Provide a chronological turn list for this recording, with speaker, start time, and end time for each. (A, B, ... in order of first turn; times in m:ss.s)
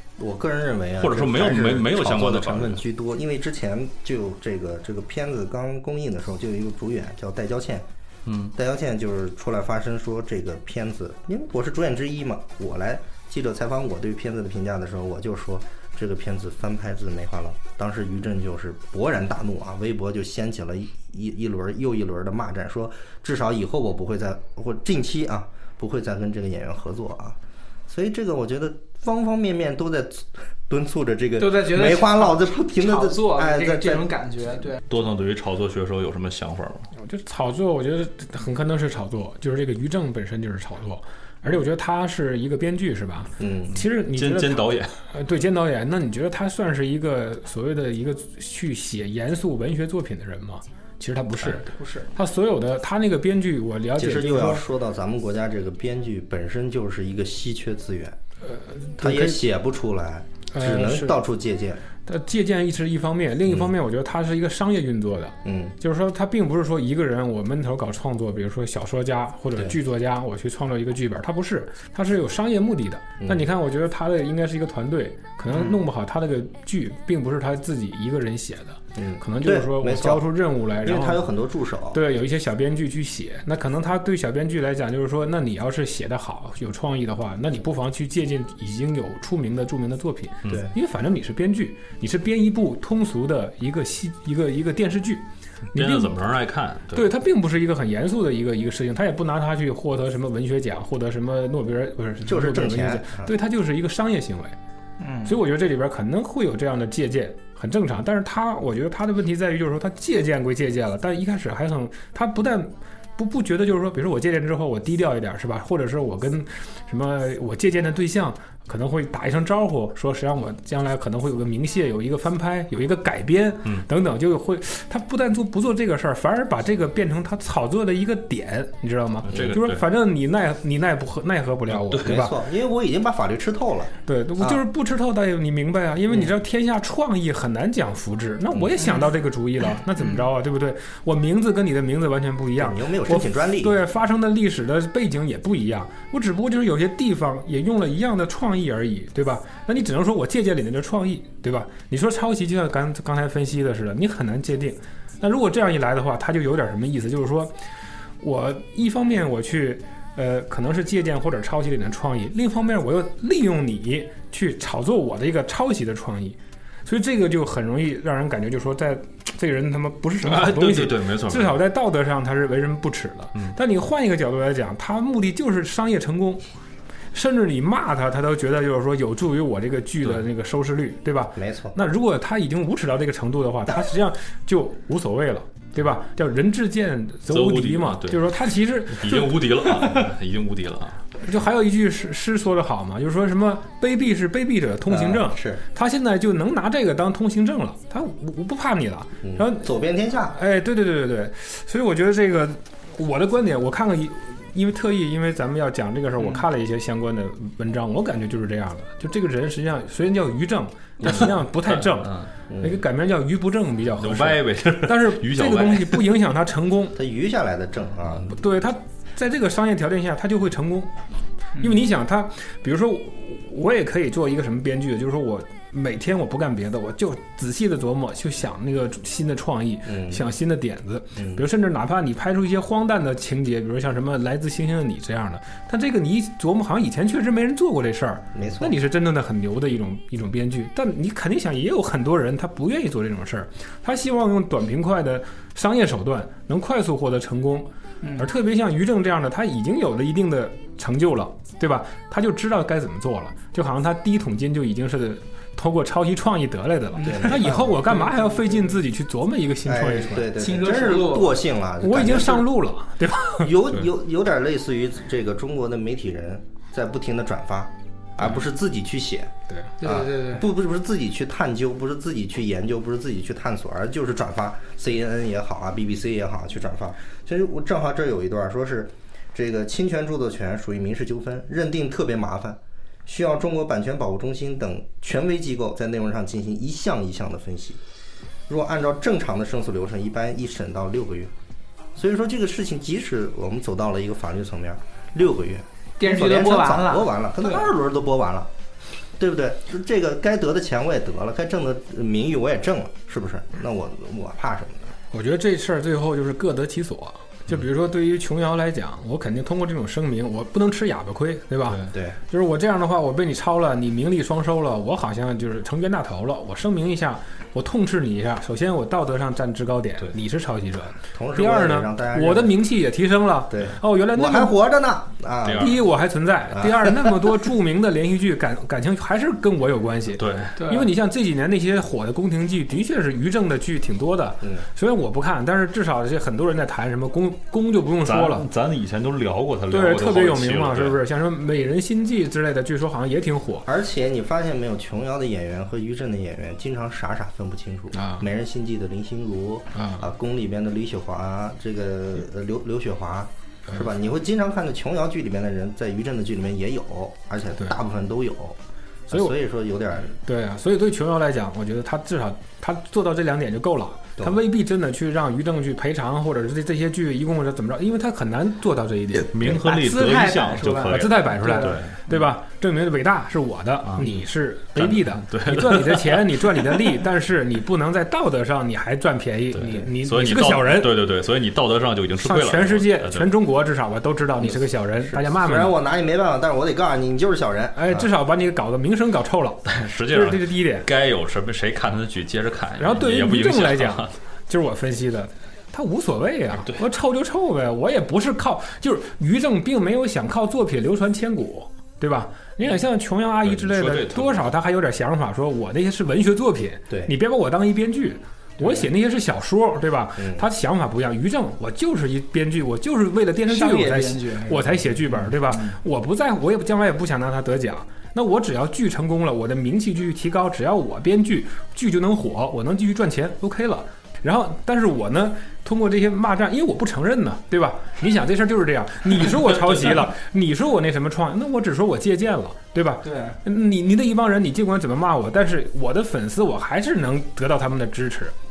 0:00.2-0:07.8 A
0:01.0-0:02.8 B
0:08.2-0:08.5 B
0:08.5-0:34.1 A
0:31.4-0:34.8 C
0:34.9-0:36.9 B
0:37.0-0:54.6 D
0:43.4-0:43.7 A
0:43.9-0:44.9 B
0:51.7-0:52.1 C
0:54.0-0:58.2 A
0:58.4-0:59.4 D
0:59.0-1:01.8 A
1:00.5-1:01.2 D
1:02.0-1:21.2 D
1:05.4-1:05.8 A
1:15.5-1:15.8 A
1:18.9-1:20.3 A
1:20.8-1:22.0 A
1:21.9-1:36.1 D
1:35.7-1:37.1 B
1:36.9-1:44.5 D
1:42.2-1:43.3 A
1:45.0-1:45.4 C
1:45.2-2:12.4 D
2:09.2-2:09.8 B
2:12.0-2:14.6 A
2:14.0-2:37.5 D
2:22.6-2:23.8 A
2:38.2-2:56.4 D
2:50.2-2:51.6 B
2:57.1-3:10.0 D
3:01.4-3:01.8 A
3:07.3-3:08.3 B
3:08.9-3:11.0 B
3:11.2-3:19.7 D
3:14.9-3:15.6 A
3:19.2-3:20.4 A
3:20.3-3:37.0 D
3:31.0-3:32.3 B
3:32.5-3:32.8 A
3:34.0-3:36.1 B
3:36.9-3:38.3 A
3:38.2-3:40.9 D
3:41.6-4:20.3 D
3:49.8-3:50.2 A
3:51.2-3:51.4 A
3:58.3-3:58.7 A
4:08.0-4:08.3 C
4:16.9-4:18.4 C
4:17.0-4:17.7 A
4:19.6-4:22.5 A
4:20.4-4:21.4 C
4:21.8-4:23.5 D
4:23.4-4:47.8 A
4:29.8-4:30.4 C
4:48.5-4:51.3 A
4:51.9-4:58.5 A
4:56.0-4:57.7 C
4:59.2-5:04.9 A
5:05.1-5:24.6 D
5:11.9-5:12.2 A
5:21.1-5:22.6 A
5:23.5-5:25.8 A
5:25.4-5:25.8 B
5:25.6-5:38.4 D
5:26.5-5:27.1 A
5:30.2-5:30.6 B
5:30.6-5:30.9 C
5:38.0-5:41.0 B
5:39.7-5:43.7 D
5:43.6-6:00.1 A
5:47.9-5:48.2 D
5:49.7-5:50.0 D
6:00.1-6:09.6 D
6:09.3-6:12.0 B
6:09.4-6:11.8 C
6:10.9-6:21.0 D
6:14.7-6:16.8 B
6:19.5-6:23.3 B
6:22.2-6:25.7 D
6:24.4-6:28.1 A
6:27.7-6:30.9 D
6:29.7-6:34.1 B
6:32.8-7:18.3 D
6:43.4-6:44.5 B
6:50.2-6:50.4 A
6:53.5-6:55.8 C
7:13.0-7:13.4 C